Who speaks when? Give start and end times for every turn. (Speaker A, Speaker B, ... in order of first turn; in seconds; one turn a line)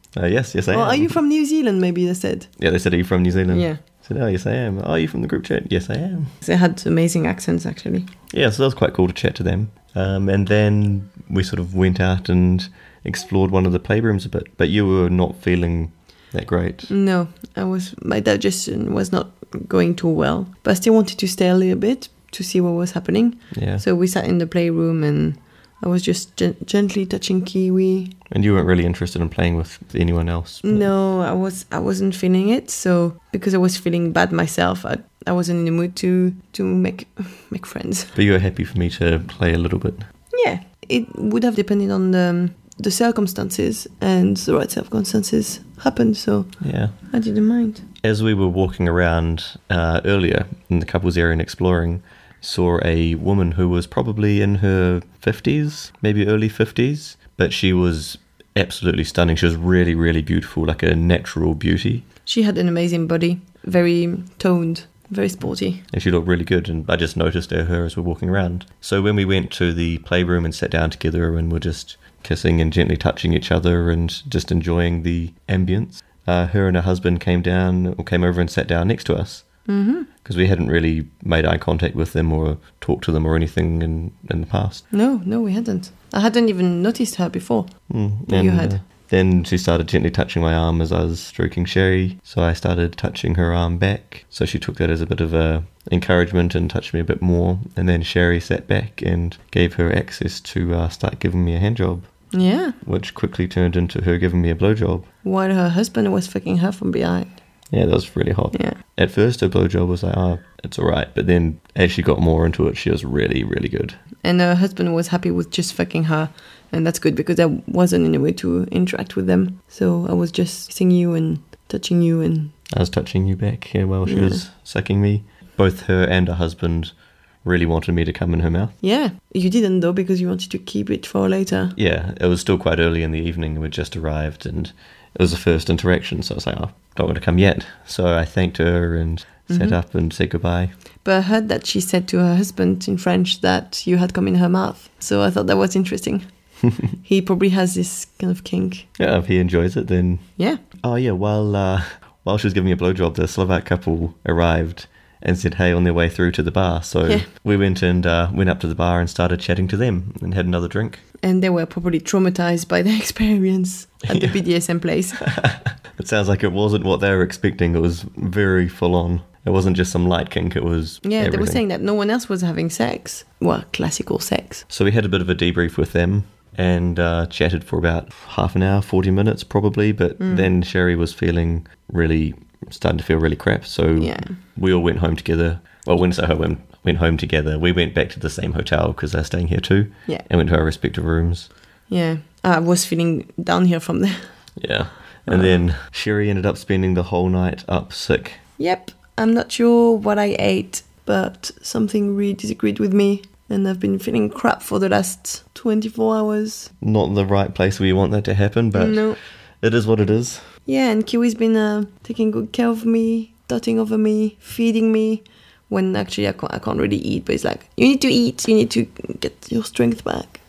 Speaker A: 0.1-1.1
Speaker B: 0.7-2.5
Speaker A: 2.6-6.3
Speaker B: 3.5-3.8
Speaker B: 6.4-8.1
Speaker A: 8.3-16.9
Speaker B: 16.9-28.2
Speaker A: 23.5-23.8
Speaker A: 28.3-30.8
Speaker B: 30.6-38.1
Speaker A: 38.1-40.1
Speaker B: 40.3-47.8
Speaker A: 46.6-46.9
Speaker A: 48.0-62.0
Speaker B: 62.2-65.8
Speaker A: 65.9-79.5
Speaker B: 79.7-80.1
Speaker A: 80.2-84.8
Speaker B: 84.9-87.7
Speaker A: 87.9-102.1
Speaker B: 88.3-88.7
Speaker B: 102.3-102.8
Speaker A: 102.8-105.1
Speaker B: 105.2-107.4
Speaker A: 107.7-114.0
Speaker B: 114.2-122.5
Speaker A: 122.7-126.9
Speaker B: 124.0-124.4
Speaker A: 127.4-128.7
Speaker B: 128.8-131.8
Speaker A: 131.8-140.7
Speaker B: 139.5-139.8
Speaker B: 141.0-146.2
Speaker B: 147.0-148.9
Speaker A: 149.0-150.2
Speaker A: 150.8-161.0
Speaker B: 161.2-165.2
Speaker A: 164.1-164.4
Speaker A: 165.2-171.6
Speaker B: 171.0-174.6
Speaker A: 174.7-191.5
Speaker B: 180.2-180.5
Speaker B: 184.0-184.3
Speaker B: 191.9-194.2
Speaker A: 194.6-198.4
Speaker B: 195.3-195.5
Speaker B: 198.6-206.7
Speaker A: 206.8-210.4
Speaker B: 208.7-209.2
Speaker B: 210.7-220.4